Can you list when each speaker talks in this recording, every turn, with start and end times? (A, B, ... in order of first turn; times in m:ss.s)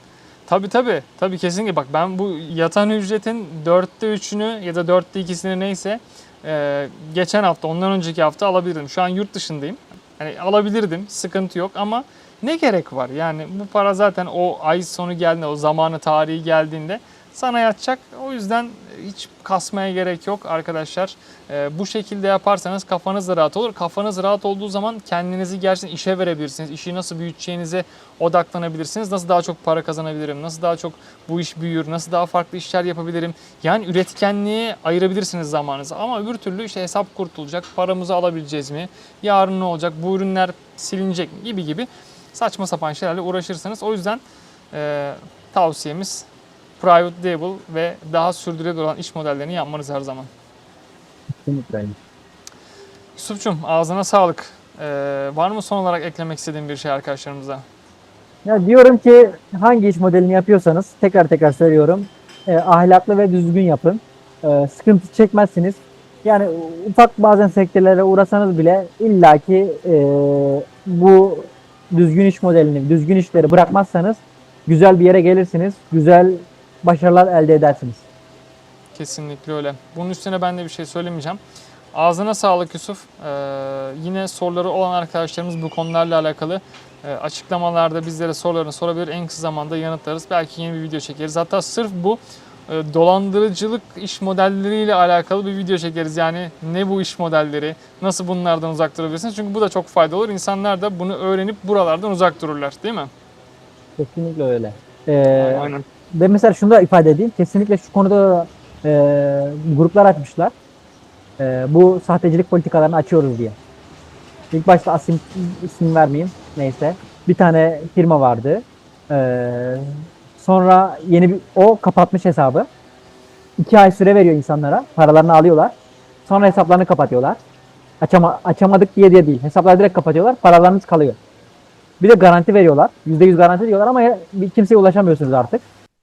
0:00.5-0:46.3 A
0:46.8-0:50.3 A
0:51.4-0:52.0 B
0:53.2-0:57.6 A
0:58.4-1:18.1 B
1:19.0-1:21.4 A
1:21.9-1:43.1 A
1:44.0-1:50.5 B
1:45.4-1:45.8 A
1:51.4-1:53.6 B
1:54.5-2:02.7 B
2:03.6-2:05.7 B
2:06.3-2:07.4 B
2:08.0-2:11.2 B
2:12.0-2:15.6 B